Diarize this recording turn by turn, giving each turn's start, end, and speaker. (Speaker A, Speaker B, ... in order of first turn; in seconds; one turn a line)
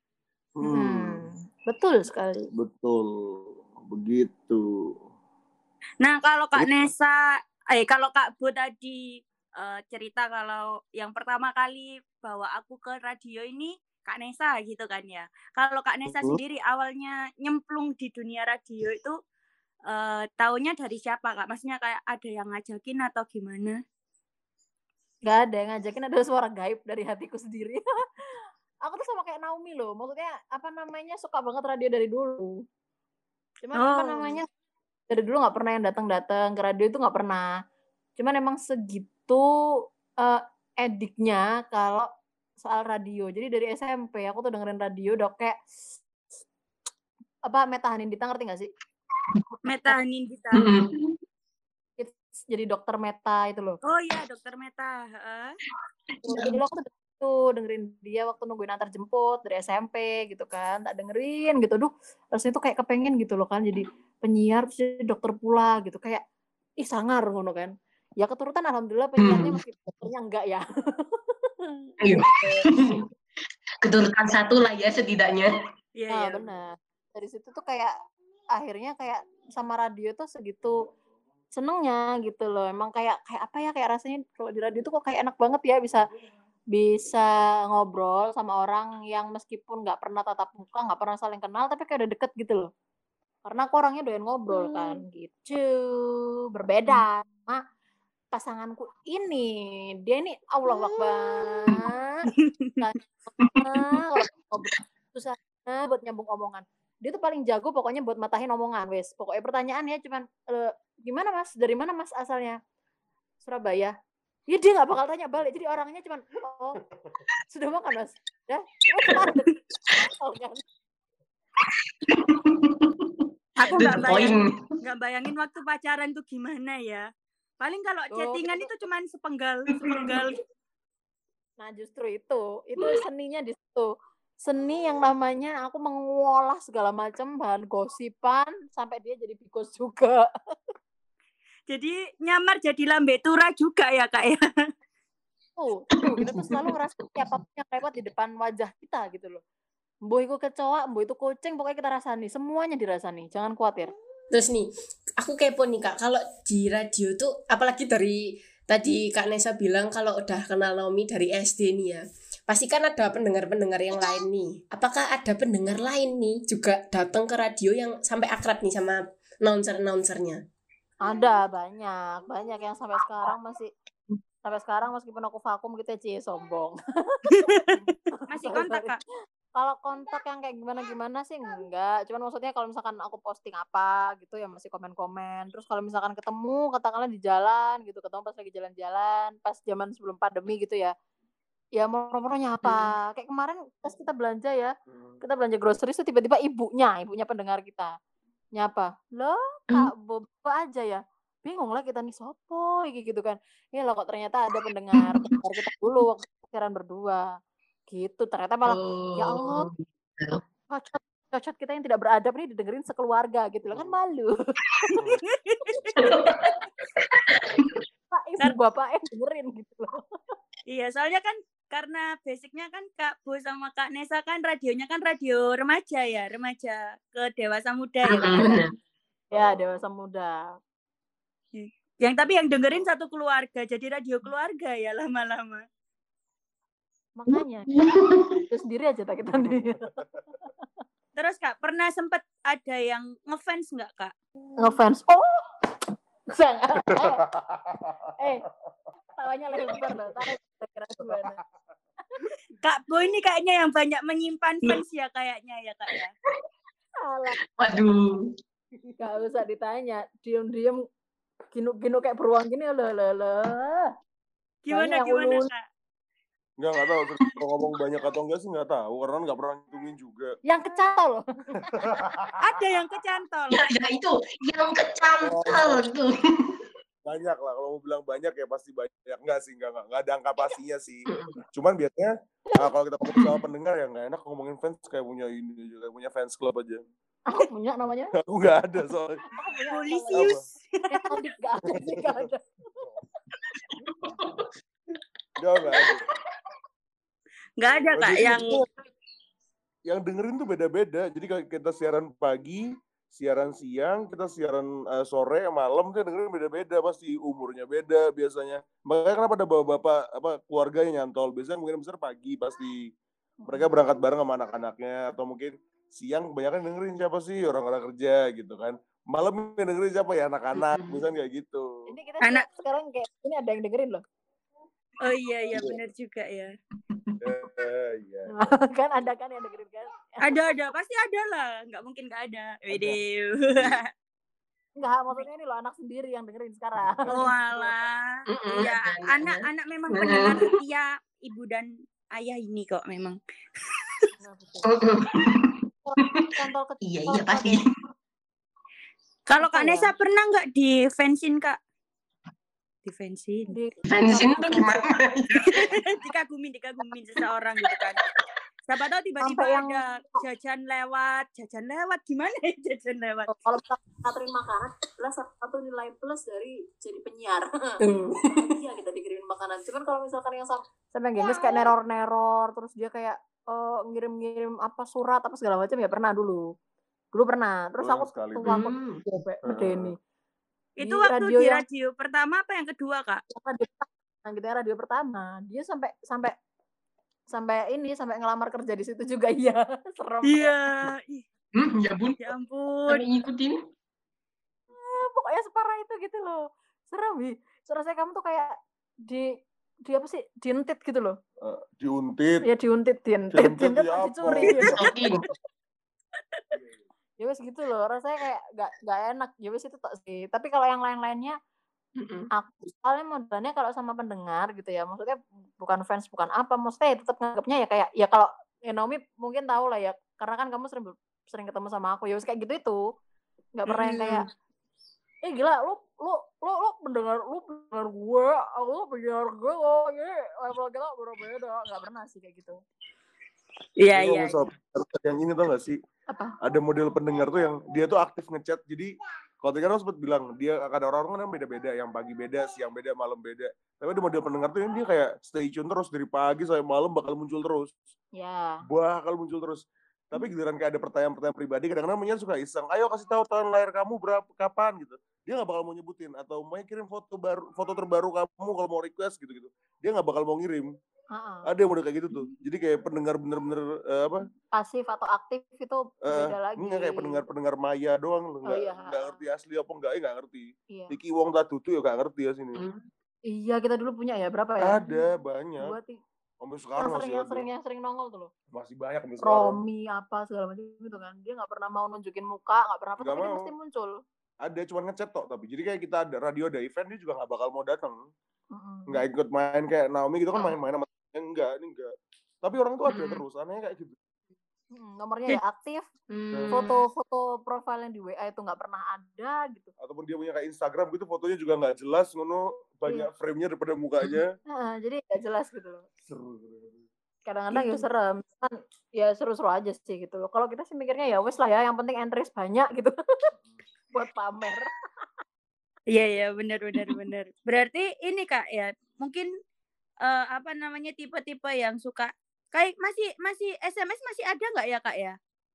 Speaker A: 0.6-1.2
Speaker B: 0.6-2.5
Speaker A: 2.5-4.9
Speaker C: 6.0-19.2
Speaker A: 6.5-6.9
Speaker A: 16.1-16.4
Speaker C: 19.9-23.8
Speaker B: 25.2-27.9
Speaker B: 28.8-32.6
Speaker B: 33.6-34.5
Speaker C: 33.8-34.4
Speaker B: 35.1-37.5
Speaker B: 38.2-39.5
Speaker B: 40.2-42.1
Speaker B: 42.6-45.5
Speaker B: 47.4-48.7
Speaker C: 49.6-50.6
Speaker D: 50.5-51.2
Speaker B: 52.0-53.8
Speaker C: 53.8-55.5
Speaker D: 56.1-56.6
Speaker B: 56.2-66.2
Speaker B: 66.8-71.8
Speaker D: 69.2-69.6
Speaker D: 72.0-73.1
Speaker B: 72.4-72.7
Speaker D: 73.8-75.5
Speaker C: 76.0-76.4
Speaker B: 76.1-77.9
Speaker B: 78.5-80.8
Speaker B: 81.5-86.0
Speaker B: 86.7-92.7
Speaker B: 93.5-97.6
Speaker B: 98.3-102.3
Speaker C: 102.5-102.8
Speaker B: 102.8-112.6
Speaker B: 113.4-113.9
Speaker B: 114.5-116.8
Speaker B: 117.5-120.6
Speaker D: 119.0-119.3
Speaker D: 121.6-124.7
Speaker C: 123.6-127.0
Speaker C: 127.6-130.3
Speaker B: 128.1-128.7
Speaker D: 129.7-130.4
Speaker B: 131.6-133.9
Speaker B: 134.4-140.2
Speaker C: 141.7-144.4
Speaker B: 145.6-149.4
Speaker D: 146.0-146.7
Speaker B: 150.1-153.9
Speaker E: 154.3-154.7
Speaker E: 155.2-170.4
Speaker B: 171.0-173.7
Speaker B: 174.4-178.9
Speaker C: 177.3-179.0
Speaker B: 179.6-190.9
Speaker B: 191.8-197.9
Speaker D: 192.6-192.9
Speaker A: 194.9-195.2
Speaker B: 198.6-207.2
Speaker D: 205.0-205.3
Speaker B: 207.9-209.7
Speaker D: 208.7-210.4
Speaker B: 210.7-214.9
Speaker A: 214.9-215.2
Speaker C: 215.2-215.9
Speaker D: 215.9-217.8
Speaker B: 218.1-220.0
Speaker C: 220.7-228.3
Speaker D: 228.0-228.7
Speaker A: 229.3-229.6
Speaker B: 229.3-230.4
Speaker C: 231.5-235.6
Speaker B: 237.2-237.7
Speaker D: 237.7-238.4
Speaker B: 238.4-239.9
Speaker C: 241.2-244.1
Speaker B: 244.6-245.5
Speaker B: 246.3-247.2
Speaker A: 246.9-247.9
Speaker B: 248.2-248.4
Speaker B: 249.2-251.4
Speaker C: 252.6-256.1
Speaker B: 257.1-257.4
Speaker D: 257.4-258.3
Speaker B: 259.0-260.8
Speaker B: 261.5-263.9
Speaker C: 264.6-265.6
Speaker B: 264.7-265.5
Speaker A: 266.6-270.4
Speaker B: 270.4-272.0
Speaker A: 271.8-272.4
Speaker C: 272.4-273.6
Speaker D: 273.5-276.6
Speaker A: 275.2-275.8
Speaker A: 277.0-286.8
Speaker D: 281.1-281.4
Speaker B: 287.3-288.1
Speaker A: 288.2-289.2
Speaker B: 289.3-290.3
Speaker C: 289.7-291.1
Speaker A: 290.1-290.4
Speaker B: 290.9-292.4
Speaker A: 291.8-292.2
Speaker D: 293.4-294.5
Speaker A: 295.4-296.0
Speaker D: 295.6-296.1
Speaker C: 297.6-298.6
Speaker A: 297.9-298.7
Speaker A: 299.9-312.9
Speaker A: 313.5-321.9
Speaker D: 320.5-321.0
Speaker B: 321.9-324.0
Speaker C: 325.0-326.5
Speaker A: 325.5-325.8
Speaker D: 326.9-327.2
Speaker A: 327.2-328.3
Speaker B: 328.3-330.4
Speaker C: 330.2-333.8
Speaker A: 332.7-333.0
Speaker A: 333.6-333.8
Speaker B: 334.8-337.7
Speaker A: 336.9-337.3
Speaker C: 337.1-343.2
Speaker D: 338.3-340.6
Speaker C: 343.7-344.1
Speaker B: 344.2-344.7
Speaker D: 344.6-347.7
Speaker B: 345.9-347.6
Speaker C: 349.3-351.6
Speaker B: 349.4-349.9
Speaker C: 352.8-353.6
Speaker B: 353.5-354.8
Speaker D: 353.9-355.7
Speaker C: 355.5-358.0
Speaker C: 358.7-363.3
Speaker B: 359.2-360.2
Speaker B: 363.3-367.8
Speaker E: 367.8-368.5
Speaker B: 368.4-376.5
Speaker B: 377.1-380.0
Speaker A: 377.8-378.5
Speaker D: 378.4-379.0
Speaker A: 379.4-379.9
Speaker C: 380.8-383.2
Speaker B: 380.8-381.6
Speaker B: 383.3-386.3
Speaker B: 387.3-390.6
Speaker C: 390.2-391.2
Speaker D: 391.5-392.3
Speaker C: 392.2-393.0
Speaker D: 392.9-393.6
Speaker B: 394.8-398.5
Speaker B: 399.1-399.3
Speaker B: 399.9-401.1
Speaker A: 401.4-402.4
Speaker B: 402.4-404.8
Speaker A: 403.3-405.1
Speaker D: 404.7-405.3
Speaker A: 406.5-406.8
Speaker B: 407.2-411.4
Speaker D: 412.0-412.3
Speaker B: 412.3-422.8
Speaker B: 423.5-424.3
Speaker C: 423.9-424.2
Speaker B: 425.2-432.6
Speaker C: 433.8-434.5
Speaker A: 433.9-435.8
Speaker B: 436.1-436.4
Speaker A: 436.4-447.8
Speaker B: 448.1-448.6
Speaker A: 448.7-460.7
Speaker B: 461.1-461.5
Speaker A: 461.4-464.3
Speaker B: 464.6-467.2
Speaker A: 466.1-472.6
Speaker B: 468.5-469.2
Speaker B: 470.7-470.9
Speaker D: 472.5-472.9
Speaker B: 473.3-475.0
Speaker A: 474.6-475.8
Speaker B: 475.6-476.0
Speaker A: 476.4-477.5
Speaker B: 476.8-478.3
Speaker A: 478.5-479.6
Speaker B: 479.2-484.0
Speaker A: 483.0-483.5
Speaker A: 484.4-488.0
Speaker B: 488.5-489.0
Speaker A: 488.9-493.9
Speaker D: 492.9-493.2
Speaker B: 494.7-499.7
Speaker A: 496.3-496.8
Speaker A: 499.8-504.4
Speaker B: 504.5-505.9
Speaker A: 506.1-506.8
Speaker B: 507.2-513.3
Speaker D: 507.5-507.8
Speaker B: 513.9-514.7
Speaker C: 515.9-519.3
Speaker C: 520.0-525.2